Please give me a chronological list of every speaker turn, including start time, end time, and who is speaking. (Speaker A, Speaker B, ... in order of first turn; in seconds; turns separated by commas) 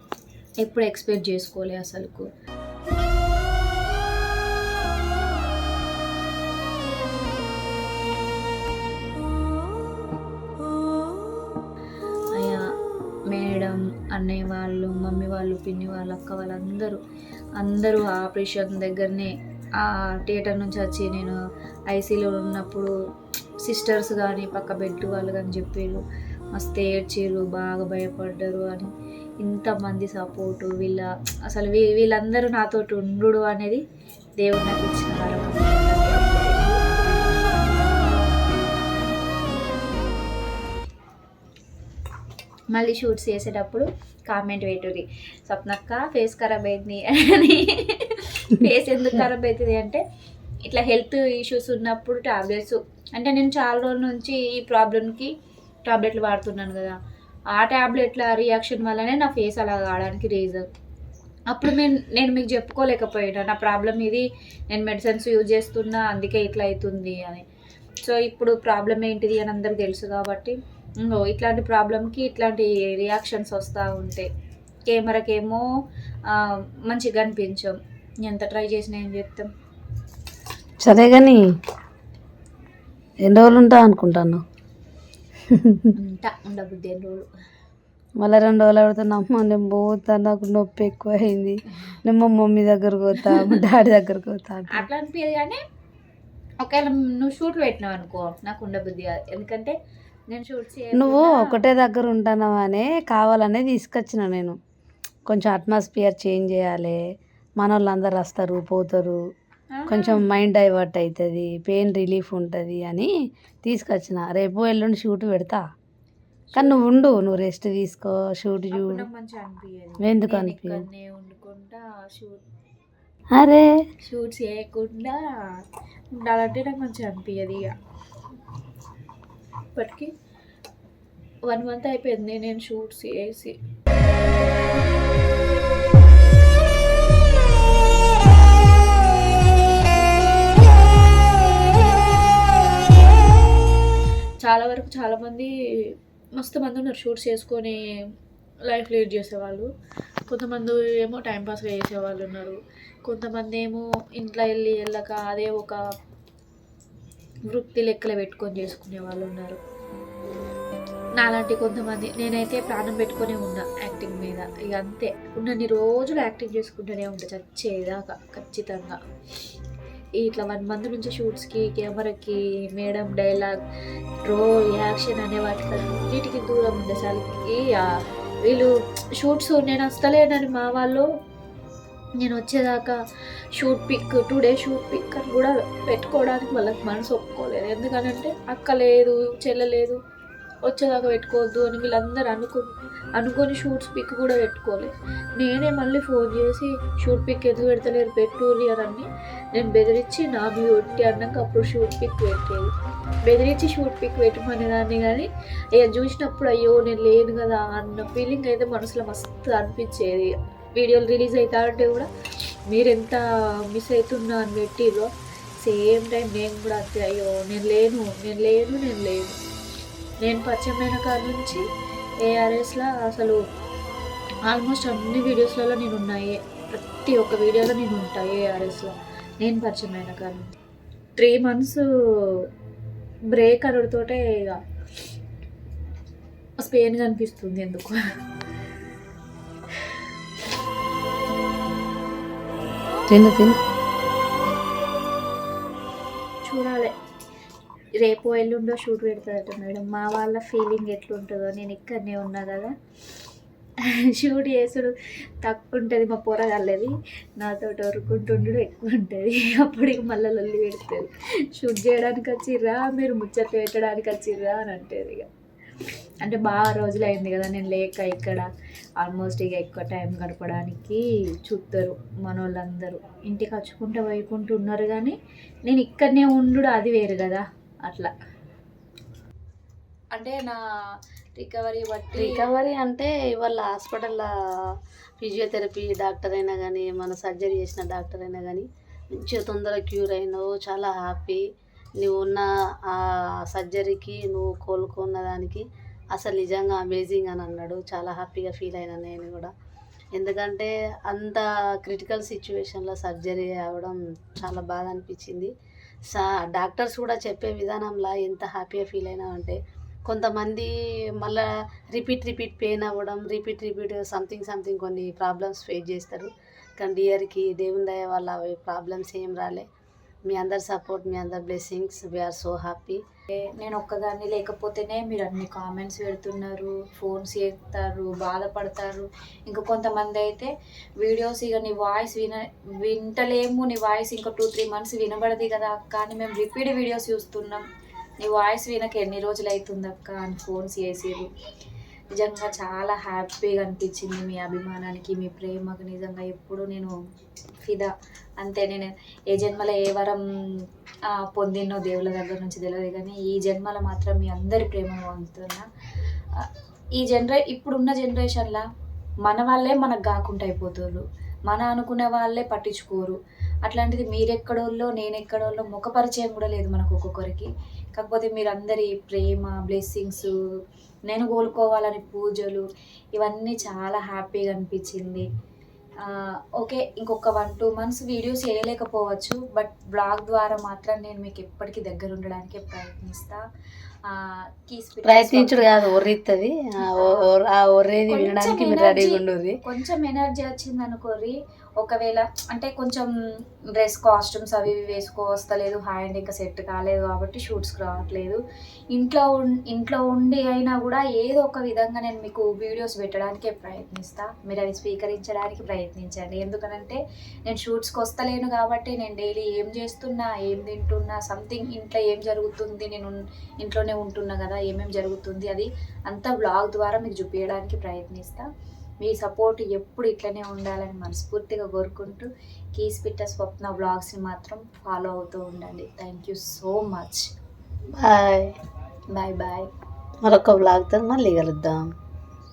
Speaker A: 0.6-2.2, Speaker A: 12.3-12.6, Speaker A: 13.3-17.0, Speaker A: 17.6-19.3, Speaker A: 19.8-21.4, Speaker A: 21.9-22.9, Speaker A: 23.6-26.0, Speaker A: 26.6-28.9, Speaker A: 29.4-33.8, Speaker A: 34.4-36.8, Speaker A: 42.7-50.0, Speaker A: 50.7-55.3, Speaker A: 55.9-56.9, Speaker A: 57.5-60.6, Speaker A: 61.5-67.4, Speaker A: 68.0-74.3, Speaker A: 74.9-75.6, Speaker A: 76.3-79.5, Speaker B: 80.8-81.5, Speaker B: 83.2-84.4, Speaker B: 85.5-85.9, Speaker A: 86.0-87.3, Speaker B: 88.2-94.9, Speaker A: 93.2-93.6, Speaker A: 94.7-95.6, Speaker A: 96.6-99.7, Speaker A: 100.3-101.6, Speaker B: 100.9-104.6, Speaker B: 105.3-107.0, Speaker B: 107.6-109.2, Speaker A: 109.7-110.4, Speaker B: 109.9-113.1, Speaker B: 113.6-115.6, Speaker A: 116.5-116.8, Speaker B: 116.5-119.0, Speaker A: 118.7-122.4, Speaker B: 120.0-120.8, Speaker B: 123.3-123.7, Speaker A: 124.0-125.2, Speaker A: 126.1-127.7, Speaker A: 129.7-130.1, Speaker A: 131.4-133.5, Speaker A: 144.4-147.8, Speaker A: 148.7-149.7, Speaker A: 150.3-155.8, Speaker A: 157.5-159.6, Speaker A: 161.2-169.0, Speaker A: 170.2-173.6, Speaker A: 174.3-177.9, Speaker A: 178.4-181.1, Speaker A: 182.2-182.9, Speaker A: 183.6-190.0, Speaker A: 190.6-202.7, Speaker A: 203.2-212.1, Speaker A: 212.7-213.2, Speaker A: 213.7-215.1, Speaker A: 215.6-219.3, Speaker A: 220.2-221.6, Speaker A: 222.2-223.4, Speaker A: 224.5-230.4, Speaker A: 231.2-232.4, Speaker A: 233.3-234.5, Speaker A: 236.6-238.0, Speaker B: 243.1-243.6, Speaker A: 246.4-246.9, Speaker A: 248.0-252.7, Speaker A: 254.1-265.2, Speaker A: 266.2-268.5, Speaker A: 269.0-275.1, Speaker A: 275.7-278.1, Speaker A: 280.1-280.6, Speaker A: 281.4-282.5, Speaker B: 282.1-291.4, Speaker B: 292.0-299.5, Speaker B: 300.1-305.5, Speaker B: 306.1-319.6, Speaker B: 320.2-323.0, Speaker A: 323.3-337.6, Speaker A: 338.2-341.3, Speaker A: 342.1-346.9, Speaker A: 347.6-350.2, Speaker A: 351.1-355.7, Speaker A: 357.0-358.6, Speaker A: 359.2-370.3, Speaker A: 371.1-372.6, Speaker A: 373.1-375.2, Speaker A: 376.6-383.4, Speaker A: 384.1-385.9, Speaker B: 385.0-389.6, Speaker A: 386.9-387.3, Speaker A: 388.1-393.1, Speaker A: 393.8-398.4, Speaker A: 398.9-418.5, Speaker A: 419.0-427.2, Speaker B: 427.9-428.6, Speaker A: 429.1-429.7, Speaker B: 430.2-431.9